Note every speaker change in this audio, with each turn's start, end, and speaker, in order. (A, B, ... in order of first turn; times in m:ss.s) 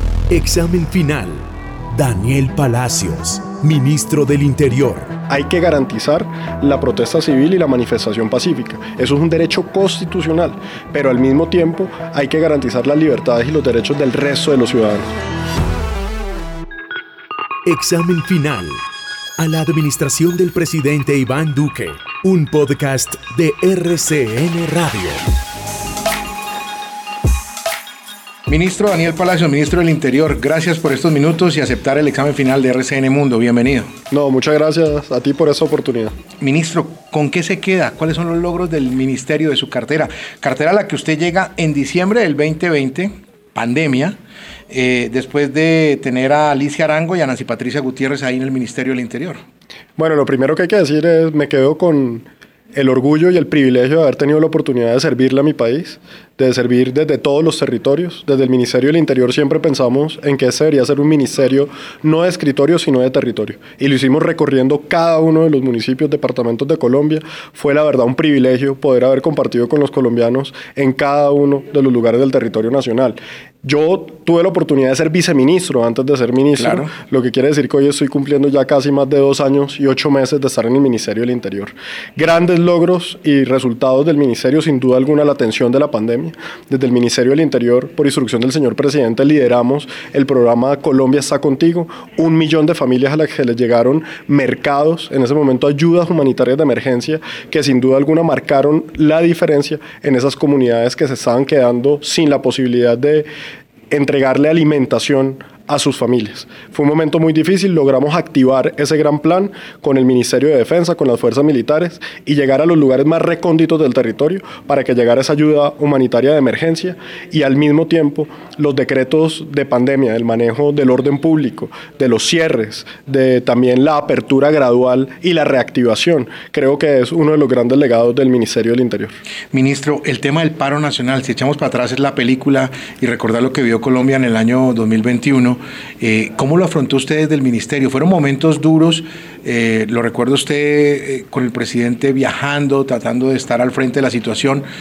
0:00.3-0:05.2 A
0:05.3-0:15.1 B
0:17.6-0:18.8 A
0:19.4-0:25.2 A
0:28.5-0:33.9 C
0:34.1-0:36.2 B
0:36.4-0:44.2 C
0:44.7-0:49.4 C
0:50.0-1:43.3 B
1:16.6-1:16.9 C
1:43.9-2:09.1 B
2:09.5-2:24.7 C